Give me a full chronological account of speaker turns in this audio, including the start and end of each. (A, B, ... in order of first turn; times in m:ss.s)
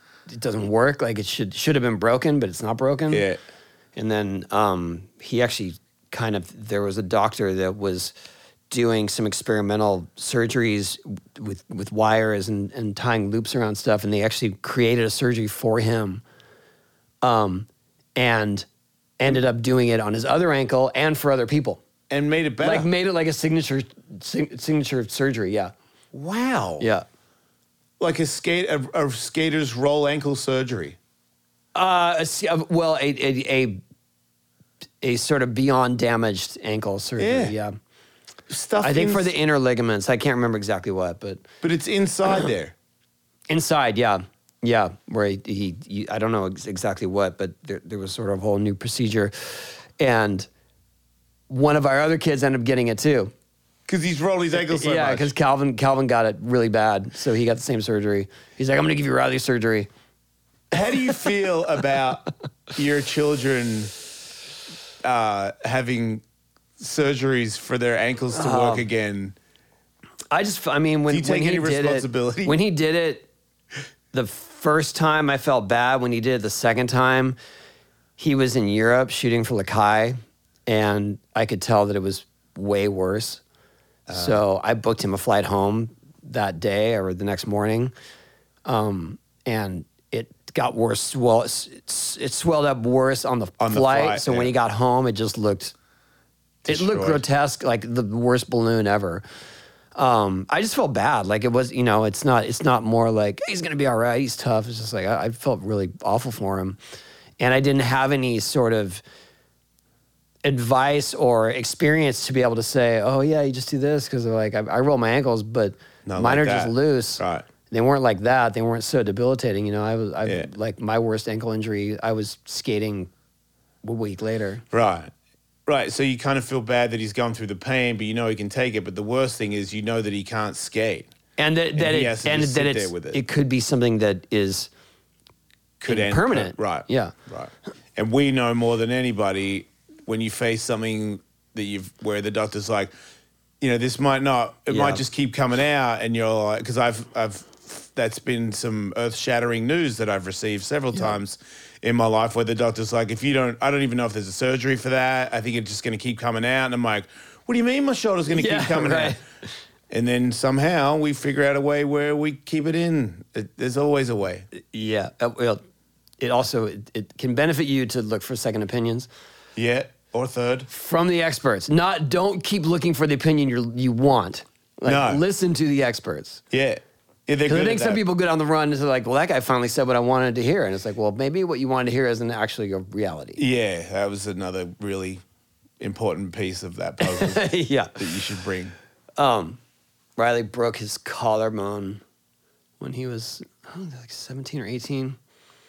0:00.3-0:03.2 A
0:03.1-0:03.4 B
0:04.0-0:08.1 A
0:08.7-0:16.2 A
0:17.2-0:18.7 A
0:19.2-0:21.8 A
0:22.1-0:22.9 B
0:22.6-0:25.7 A
0:26.1-0:26.9 B
0:28.0-0:31.0 B
0:31.7-0:33.8 A
0:35.0-0:37.7 A
0:37.2-0:37.5 B
0:38.5-0:39.3 B
0:38.8-0:41.4 A
0:41.6-0:42.7 B
0:43.5-0:50.5 A
0:51.5-0:53.3 A
0:53.9-0:55.3 B
0:54.6-0:59.9 A
1:00.7-1:03.9 B
1:05.0-1:06.2 B
1:06.8-1:09.4 B
1:08.3-1:08.9 A
1:10.3-1:13.3 A
1:11.1-1:12.6 B
1:14.1-1:17.4 A
1:18.2-1:23.4 A
1:24.1-1:24.4 B
1:24.1-1:27.9 A
1:28.6-1:35.7 A
1:33.6-1:34.5 B
1:36.6-1:37.2 B
1:36.7-1:39.2 A
1:39.9-1:46.8 A
1:47.4-1:49.0 A
1:50.4-2:03.1 A
1:56.0-1:57.4 B
2:03.8-2:04.6 A
2:04.7-2:05.1 B
2:05.6-2:11.1 B
2:11.4-2:14.7 A
2:11.8-2:13.2 B
2:15.8-2:22.9 B
2:15.9-2:17.1 A
2:23.6-2:39.2 B
2:24.7-2:25.0 A
2:38.3-2:39.2 A
2:39.9-2:44.5 B
2:44.5-2:45.6 A
2:46.2-2:49.1 A
2:49.6-2:50.7 B
2:50.7-2:56.4 A
2:54.8-2:55.2 B
2:56.5-2:58.0 B
2:57.5-3:03.4 A
3:03.4-3:05.2 B
3:05.8-3:07.4 B
3:07.0-3:08.0 A
3:08.0-3:08.7 B
3:09.2-3:09.6 A
3:10.2-3:12.0 A
3:12.8-3:15.2 A